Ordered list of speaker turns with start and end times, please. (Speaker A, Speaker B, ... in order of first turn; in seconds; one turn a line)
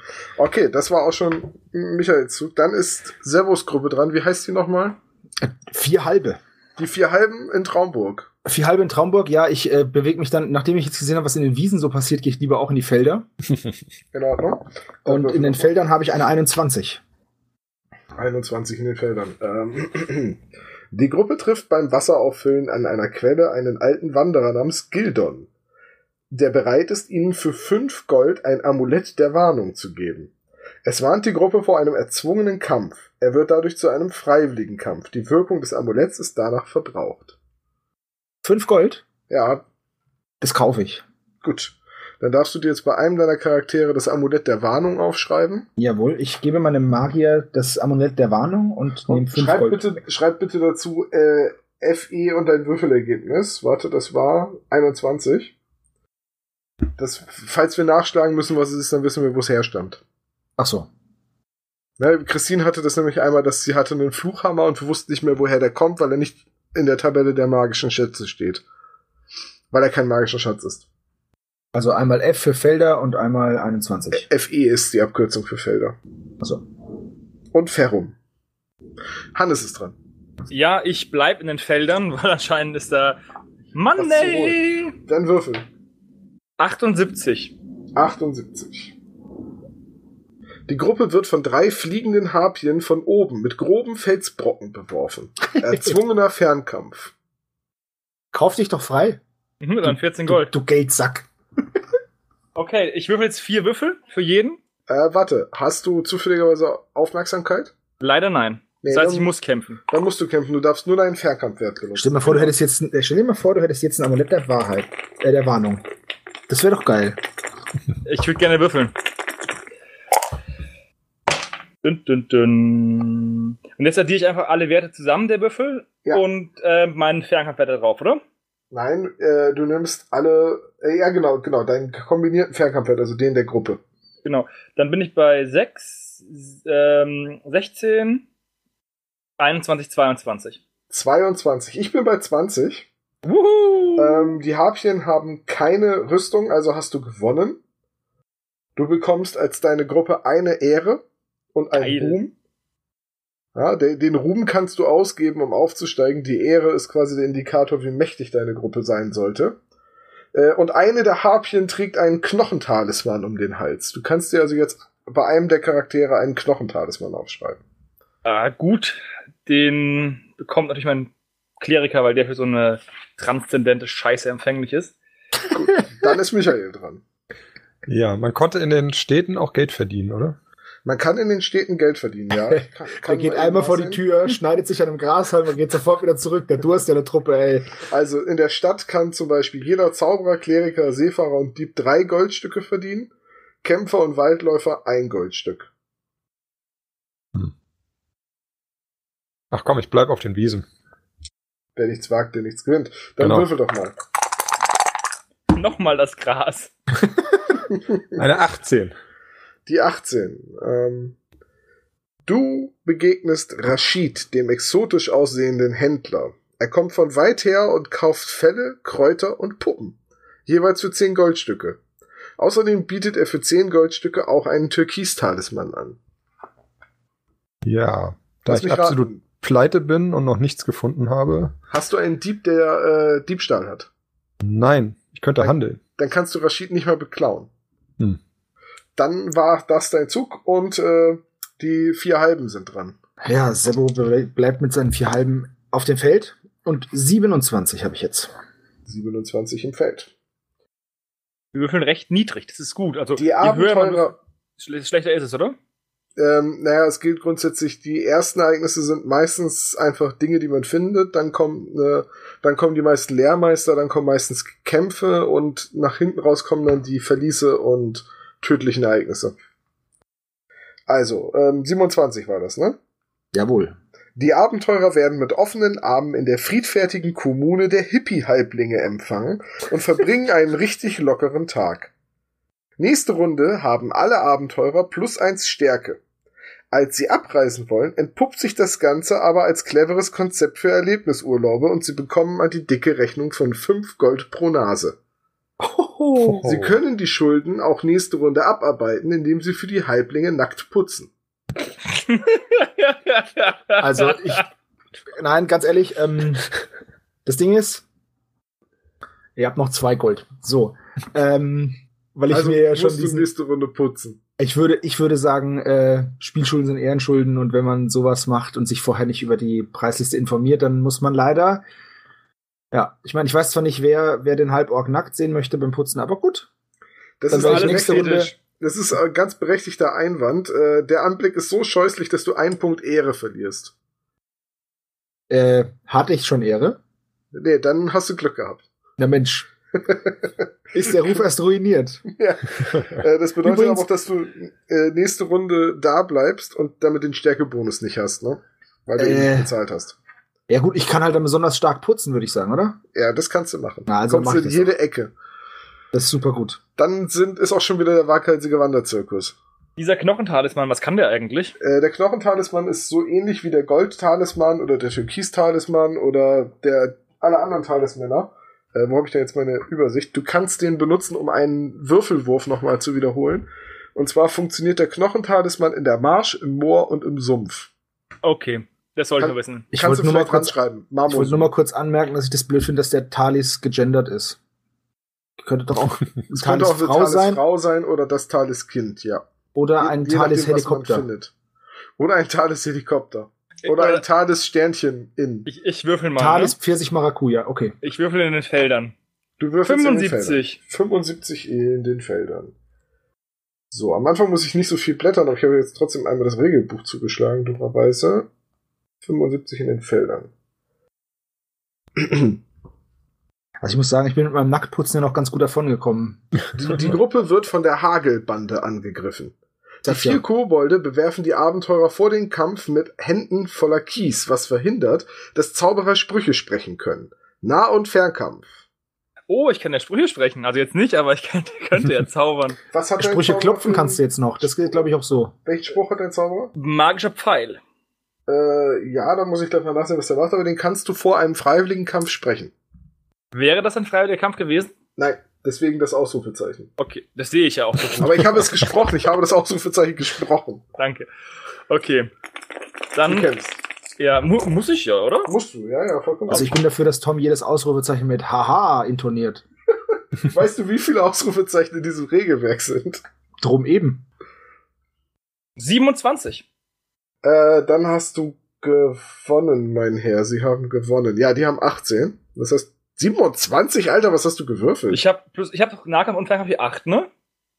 Speaker A: 0.4-5.0
Speaker B: 5.4-6.4
Speaker A: 6.8-8.3
Speaker B: 8.4-13.2
Speaker A: 14.1-15.6
Speaker B: 15.1-17.0
Speaker A: 18.2-20.4
Speaker A: 20.9-25.5
Speaker A: 26.3-30.3
Speaker A: 30.8-37.4
Speaker B: 38.4-39.0
Speaker A: 39.3-39.6
Speaker B: 40.4-41.0
Speaker A: 41.4-45.7
Speaker B: 45.8-50.0
Speaker A: 49.1-55.5
Speaker A: 57.0-60.0
Speaker B: 60.6-60.9
Speaker A: 62.0-68.6
Speaker A: 69.7-70.8
Speaker B: 71.7-74.2
Speaker A: 74.1-76.0
Speaker A: 77.5-78.2
Speaker A: 79.3-80.0
Speaker C: 80.5-83.2
Speaker C: 83.7-84.9
Speaker A: 84.0-85.7
Speaker C: 86.6-87.5
Speaker A: 87.9-88.9
Speaker A: 90.7-97.1
Speaker B: 95.7-95.9
Speaker B: 98.3-99.2
Speaker C: 99.6-100.5
Speaker B: 99.8-101.3
Speaker C: 102.5-104.6
Speaker A: 104.9-107.7
Speaker C: 108.0-109.8
Speaker A: 108.8-109.3
Speaker A: 109.9-112.5
Speaker B: 112.0-115.8
Speaker B: 116.5-117.2
Speaker C: 118.0-118.9
Speaker C: 121.8-128.2
Speaker A: 128.7-133.8
Speaker C: 134.2-138.2
Speaker C: 139.4-140.6
Speaker A: 140.9-142.9
Speaker C: 143.2-144.4
Speaker A: 144.0-147.6
Speaker A: 148.8-151.0
Speaker A: 151.5-152.3
Speaker C: 151.7-152.2
Speaker A: 153.5-159.6
Speaker A: 160.3-167.6
Speaker C: 168.2-174.9
Speaker A: 175.5-177.0
Speaker D: 177.9-180.4
Speaker A: 180.8-184.0
Speaker B: 182.5-187.8
Speaker A: 187.8-193.1
Speaker A: 193.6-195.7
Speaker D: 199.5-200.7
Speaker A: 201.8-203.9
Speaker D: 203.2-203.5
Speaker C: 205.5-206.7
Speaker A: 207.7-208.2
Speaker D: 208.2-208.9
Speaker A: 209.7-211.2
Speaker A: 212.2-219.9
Speaker A: 220.5-221.8
Speaker A: 222.4-226.0
Speaker D: 227.6-231.5
Speaker A: 228.5-229.2
Speaker A: 231.7-233.9
Speaker D: 234.4-235.8
Speaker A: 235.4-237.5
Speaker A: 239.0-243.0
Speaker B: 243.2-248.3
Speaker A: 248.8-250.1
Speaker C: 251.5-255.6
Speaker A: 253.2-254.2
Speaker A: 256.2-269.3
Speaker A: 270.9-272.8
Speaker B: 273.3-273.8
Speaker A: 274.1-281.9
Speaker A: 282.8-286.0
Speaker A: 286.7-294.9
Speaker B: 295.6-296.5
Speaker D: 296.3-296.7
Speaker A: 296.4-301.1
Speaker C: 301.8-304.4
Speaker B: 303.8-304.5
Speaker B: 305.1-306.5
Speaker B: 307.2-307.8
Speaker B: 309.4-313.3
Speaker A: 312.3-314.2
Speaker B: 314.4-321.6
Speaker B: 322.7-326.5
Speaker A: 327.2-333.7
Speaker B: 327.3-328.3
Speaker C: 327.3-328.3
Speaker B: 335.3-336.8
Speaker A: 337.3-338.6
Speaker B: 339.0-339.5
Speaker A: 339.8-340.2
Speaker B: 340.7-342.0
Speaker A: 340.9-341.2
Speaker A: 342.1-349.9
Speaker B: 343.4-343.9
Speaker B: 349.0-349.5
Speaker B: 350.5-352.8
Speaker A: 352.9-355.1
Speaker B: 353.9-354.7
Speaker B: 355.9-356.6
Speaker A: 356.8-359.4
Speaker C: 359.8-361.5
Speaker A: 361.6-377.7
Speaker C: 378.2-379.6
Speaker A: 379.2-381.5
Speaker B: 379.7-380.5
Speaker B: 381.1-384.4
Speaker B: 385.4-387.4
Speaker A: 386.3-389.2
Speaker B: 389.5-391.1
Speaker A: 389.8-391.3
Speaker A: 392.0-395.5
Speaker C: 393.6-394.0
Speaker C: 395.5-396.6
Speaker B: 396.2-397.7
Speaker C: 397.8-398.9
Speaker A: 399.4-402.5
Speaker C: 399.6-400.6
Speaker A: 403.7-408.3
Speaker A: 409.0-410.3
Speaker A: 412.0-412.4
Speaker B: 413.6-416.2
Speaker A: 416.5-428.5
Speaker B: 419.8-420.2
Speaker C: 429.3-432.6
Speaker A: 432.7-434.9
Speaker B: 433.0-435.3
Speaker A: 435.4-436.5
Speaker C: 436.5-437.6
Speaker A: 438.3-442.5
Speaker C: 443.3-444.7
Speaker A: 445.0-446.7
Speaker C: 446.8-448.6
Speaker A: 448.0-450.6
Speaker C: 450.8-451.1
Speaker C: 451.7-452.1
Speaker C: 452.9-453.3
Speaker A: 453.1-453.6
Speaker C: 454.0-455.3
Speaker A: 455.3-456.5
Speaker B: 456.3-459.4
Speaker A: 460.2-463.0
Speaker B: 463.4-464.0
Speaker C: 465.6-466.4
Speaker A: 467.2-475.0
Speaker C: 474.9-477.1